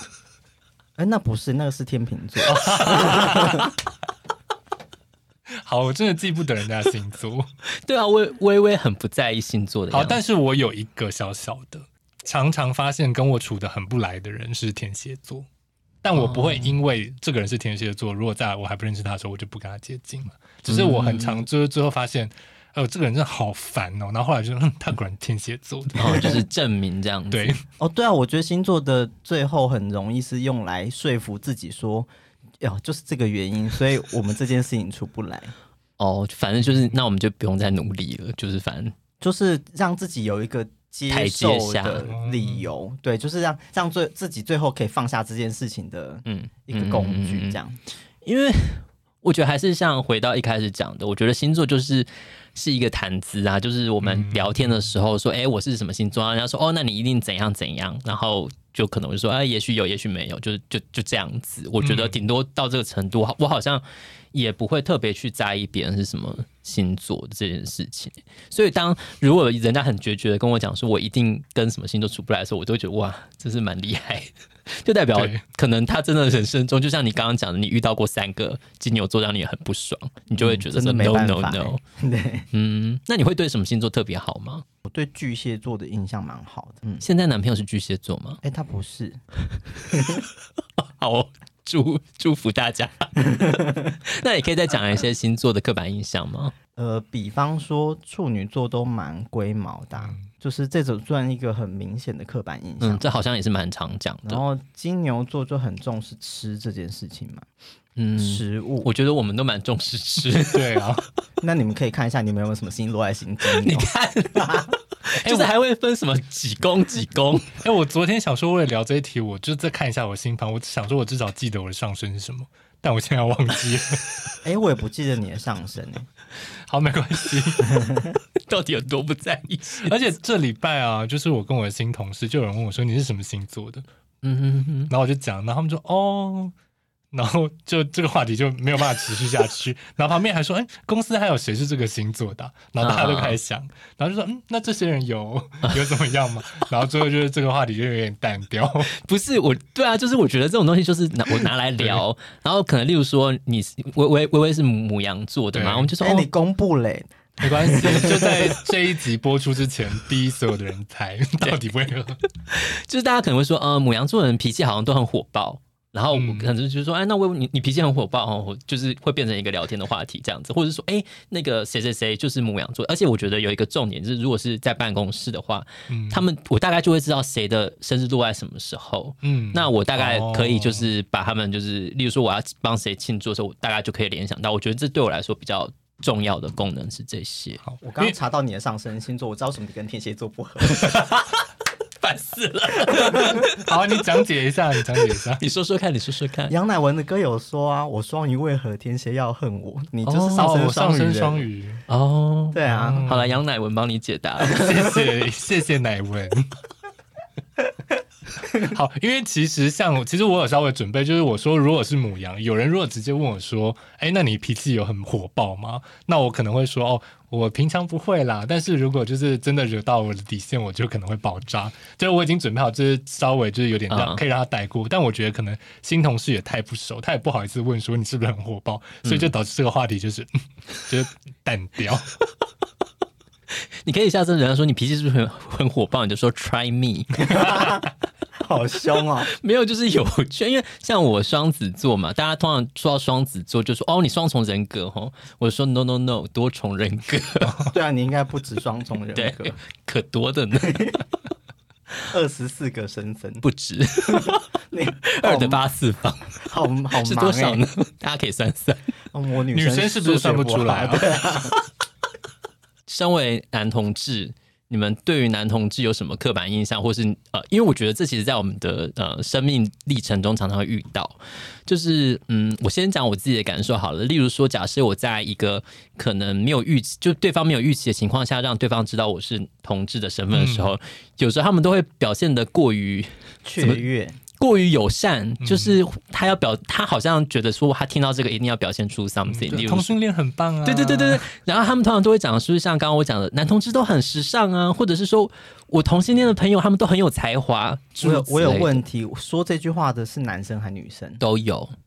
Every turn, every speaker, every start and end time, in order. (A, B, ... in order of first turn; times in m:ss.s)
0:01.0-0:03.7 A
0:02.4-0:03.7 B
0:05.6-0:07.5 B
0:07.8-0:10.2 C
0:09.9-0:15.5 B
0:16.0-0:26.4 B
0:16.2-0:16.8 C
0:20.7-0:21.4 C
0:26.0-0:27.6 C
0:27.3-0:27.6 B
0:27.8-0:35.5 A
0:36.0-0:38.9 C
0:39.2-0:47.8 A
0:41.1-0:42.1 C
0:42.0-0:42.7 B
0:46.3-0:47.6 C
0:48.2-1:21.8 C
0:54.0-0:54.8 B
1:01.8-1:02.2 B
1:15.2-1:15.4 B
1:20.4-1:22.5 A
1:22.5-1:24.6 C
1:24.9-1:27.0 A
1:27.0-1:28.4 C
1:28.4-1:29.2 A
1:29.9-1:30.2 A
1:30.8-1:36.5 C
1:33.4-1:33.8 A
1:36.8-1:43.1 A
1:40.0-1:40.3 B
1:42.8-1:44.4 C
1:44.3-1:47.5 A
1:48.0-1:50.8 C
1:48.2-1:48.9 A
1:50.4-1:51.0 B
1:51.4-1:54.7 A
1:53.5-1:57.6 C
1:55.2-1:55.5 B
1:57.6-2:04.3 B
2:04.4-2:06.1 A
2:06.7-2:07.9 B
2:07.6-2:08.1 A
2:08.4-2:09.9 C
2:09.8-2:13.8 B
2:14.2-2:14.9 C
2:14.9-2:16.5 B
2:17.1-2:28.9 B
2:22.8-2:23.4 C
2:28.9-2:36.3 C
2:35.5-2:35.9 B
2:36.0-2:38.6 A
2:37.4-2:42.2 B
2:42.5-3:07.6 C
2:46.1-2:46.5 B
2:55.9-2:56.2 B
2:59.2-3:00.9 B
3:07.6-3:08.2 B
3:07.8-3:11.0 A
3:10.8-3:11.2 C
3:12.0-3:14.0 C
3:13.1-3:13.4 A
3:13.1-3:15.4 B
3:14.9-3:16.5 C
3:16.5-3:21.5 A
3:20.0-3:20.5 C
3:20.4-3:21.8 B
3:21.9-3:24.8 C
3:22.5-3:23.0 A
3:22.7-3:23.4 B
3:24.4-3:26.5 B
3:28.5-3:52.1 B
3:43.9-3:44.2 C
3:49.0-3:49.3 C
3:53.8-3:57.6 C
3:57.2-3:57.9 A
3:58.4-3:59.3 A
3:59.2-4:07.7 C
4:07.7-4:09.6 A
4:09.1-4:11.0 C
4:10.6-4:11.0 A
4:12.1-4:13.4 A
4:13.4-4:14.4 C
4:14.0-4:15.6 A
4:15.0-4:16.4 C
4:16.4-4:17.6 A
4:17.0-4:18.9 C
4:19.1-4:21.6 A
4:19.5-4:21.4 B
4:22.9-4:43.8 C
4:40.3-4:40.7 B
4:43.4-4:44.2 A
4:44.4-4:49.9 C
4:45.4-4:45.8 B
4:49.3-4:51.3 B
4:50.6-4:58.8 C
4:58.0-5:01.2 A
5:01.2-5:01.7 C